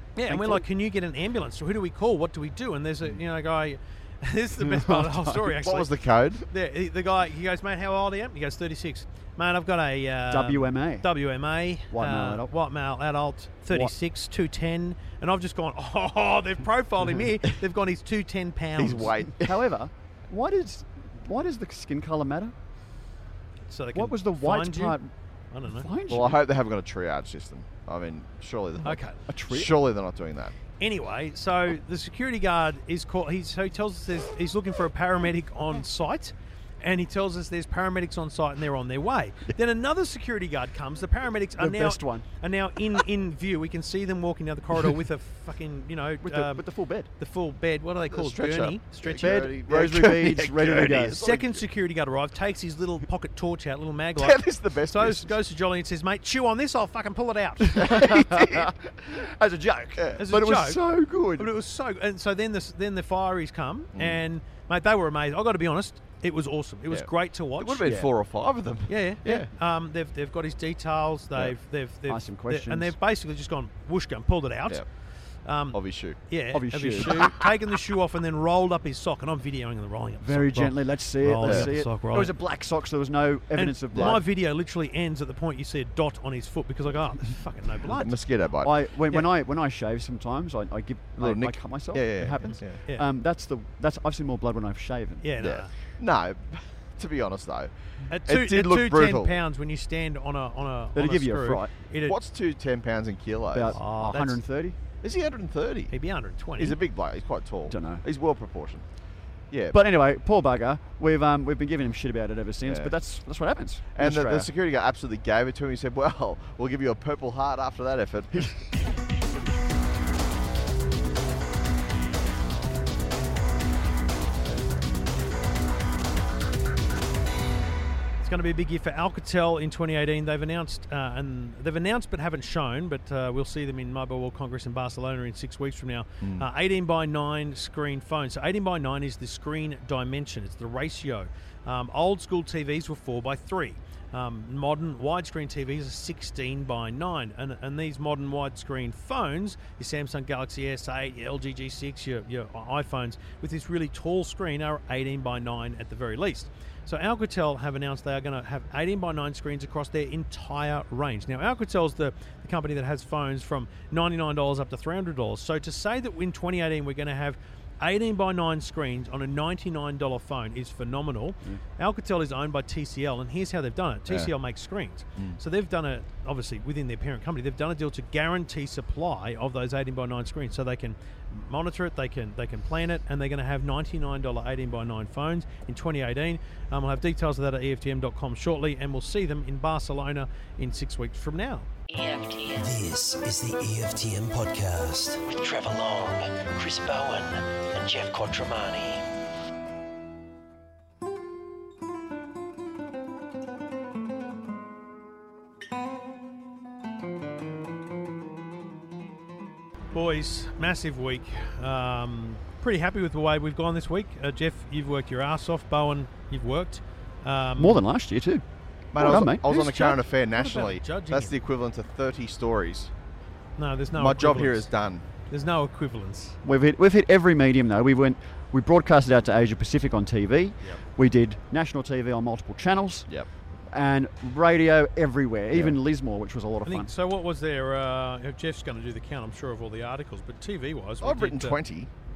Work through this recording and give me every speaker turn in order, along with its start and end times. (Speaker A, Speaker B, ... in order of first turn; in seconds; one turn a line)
Speaker A: 0.2-5.9
Speaker B: 0.3-0.7
Speaker B: 4.6-5.4
Speaker C: 5.4-6.4
Speaker A: 6.5-19.1
Speaker B: 10.3-11.1
Speaker B: 11.9-12.5
Speaker C: 18.8-19.6
Speaker B: 19.4-22.5
Speaker A: 23.6-25.0
Speaker B: 23.9-25.1
Speaker A: 25.5-25.9
Speaker B: 25.6-26.4
Speaker C: 26.1-30.5
Speaker A: 28.8-29.2
Speaker B: 29.2-29.8
Speaker A: 30.8-46.6
Speaker B: 41.6-42.2
Speaker B: 46.2-47.1
Speaker A: 47.2-49.5
Speaker C: 48.1-51.6
Speaker B: 49.2-51.2
Speaker A: 51.2-58.1
Speaker C: 54.1-55.3
Speaker B: 57.6-61.5
Speaker C: 57.8-58.7
Speaker C: 60.0-60.3
Speaker A: 60.2-60.8
Speaker A: 61.3-67.9
Speaker C: 66.9-69.5
Speaker B: 67.8-68.1
Speaker A: 68.9-74.8
Speaker B: 72.1-72.9
Speaker A: 75.4-82.3
Speaker C: 75.7-76.2
Speaker B: 76.5-77.3
Speaker B: 80.2-84.2
Speaker C: 81.4-81.7
Speaker A: 83.5-88.1
Speaker C: 83.9-84.2
Speaker C: 88.0-89.2
Speaker B: 88.6-95.2
Speaker C: 91.2-92.8
Speaker A: 92.5-93.1
Speaker A: 95.2-95.7
Speaker C: 95.4-99.4
Speaker A: 98.1-102.2
Speaker B: 100.9-101.7
Speaker C: 102.0-103.8
Speaker B: 103.5-104.8
Speaker A: 103.7-104.4
Speaker C: 105.0-105.9
Speaker A: 105.9-106.8
Speaker C: 106.6-108.8
Speaker B: 107.7-108.0
Speaker C: 109.5-109.8
Speaker B: 109.7-114.5
Speaker C: 112.6-112.9
Speaker C: 113.9-118.6
Speaker A: 128.2-191.7
Speaker D: 191.9-199.1
Speaker A: 209.9-217.8
Speaker B: 217.6-218.4
Speaker C: 218.9-222.9
Speaker B: 218.9-220.0
Speaker A: 220.4-221.3
Speaker A: 223.6-224.7
Speaker C: 223.9-225.0
Speaker A: 225.3-226.4
Speaker B: 226.4-233.1
Speaker B: 233.7-236.9
Speaker C: 235.5-235.8
Speaker A: 236.7-241.6
Speaker C: 241.0-241.9